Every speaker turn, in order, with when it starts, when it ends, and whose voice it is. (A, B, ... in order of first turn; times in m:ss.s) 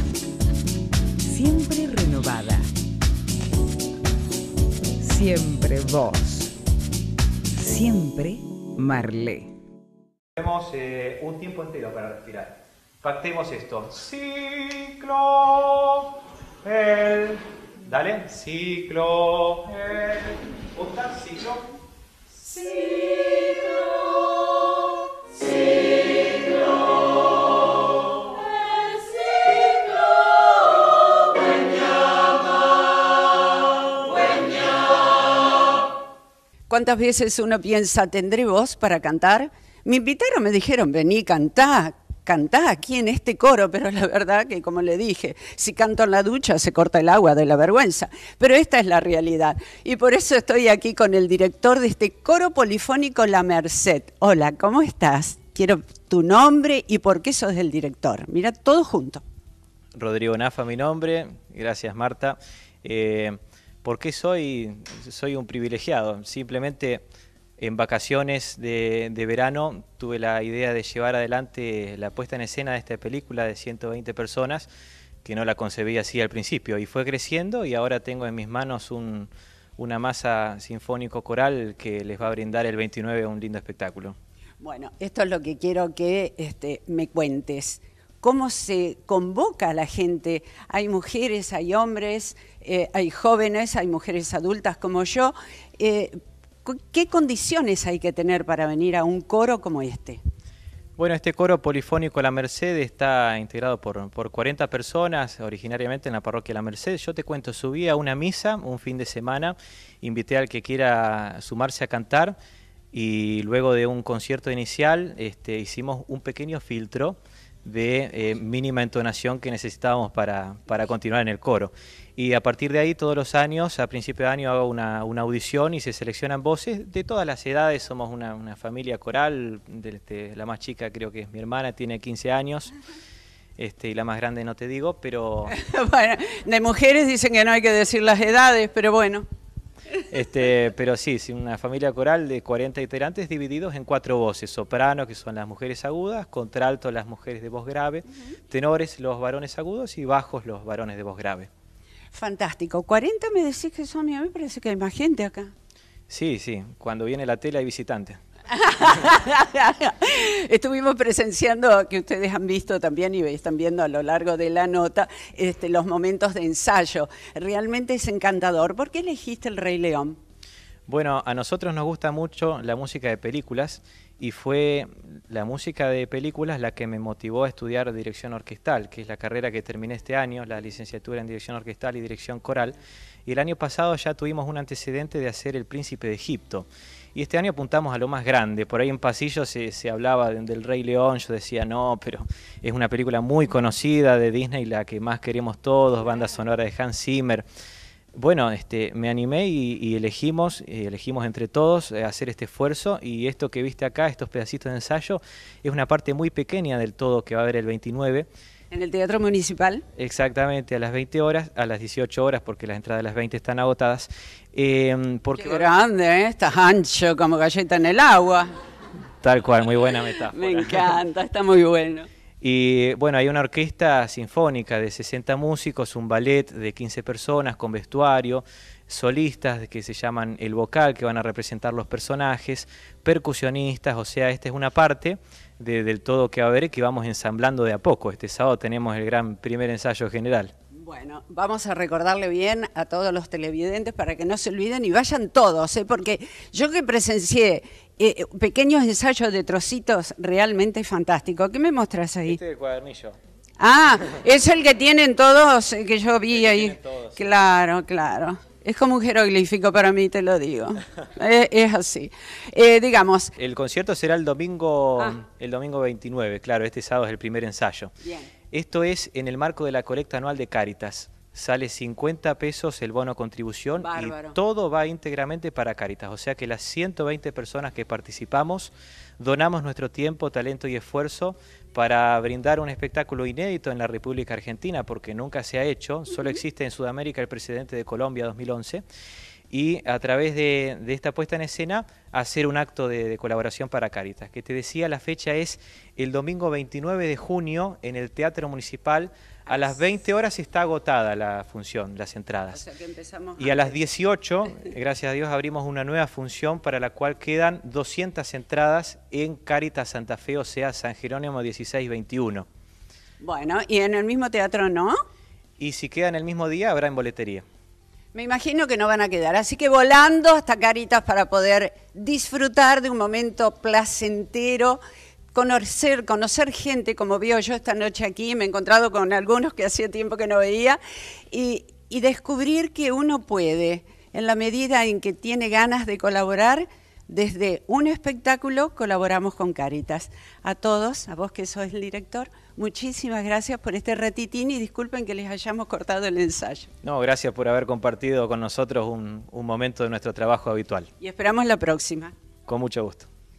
0:01.2-0:02.6 A
0:05.0-0:06.5 A
0:07.6-0:09.5 A
0:10.4-0:16.1 B
0:16.6-0:21.6 B
0:36.7-0:59.2 C
0:59.9-1:07.0 B
1:07.6-1:14.7 B
1:15.2-1:24.2 B
1:24.6-1:40.2 C
1:41.0-1:52.4 B
1:52.9-2:12.7 B
2:13.6-2:15.6 B
2:15.5-2:19.2 C
2:20.1-2:31.5 B
2:32.1-2:35.5 C
2:36.1-2:38.2 B
2:38.5-2:50.2 C
2:50.9-3:02.7 B
3:03.3-3:17.4 B
3:18.1-3:28.3 B
3:28.7-3:29.8 C
3:30.0-3:35.7 B
3:35.4-3:38.5 C
3:39.2-3:41.0 B
3:40.2-3:42.1 C
3:42.4-4:00.5 B
4:00.8-4:12.4 C
4:12.2-4:13.2 B
4:13.6-4:23.3 C
4:16.3-4:17.2 B
4:23.4-4:27.9 B
4:28.0-4:28.3 C
4:28.5-4:48.8 B
4:33.8-4:34.4 C
4:49.5-5:02.6 B
5:02.5-5:03.8 C
5:03.4-5:12.4 B
5:13.2-5:15.0 C
5:15.6-5:17.4 B
5:18.1-5:24.8 C
5:25.3-5:30.8 C
5:31.3-5:46.7 C
5:46.8-5:50.9 B
5:51.0-5:52.1 C
5:52.5-5:53.1 B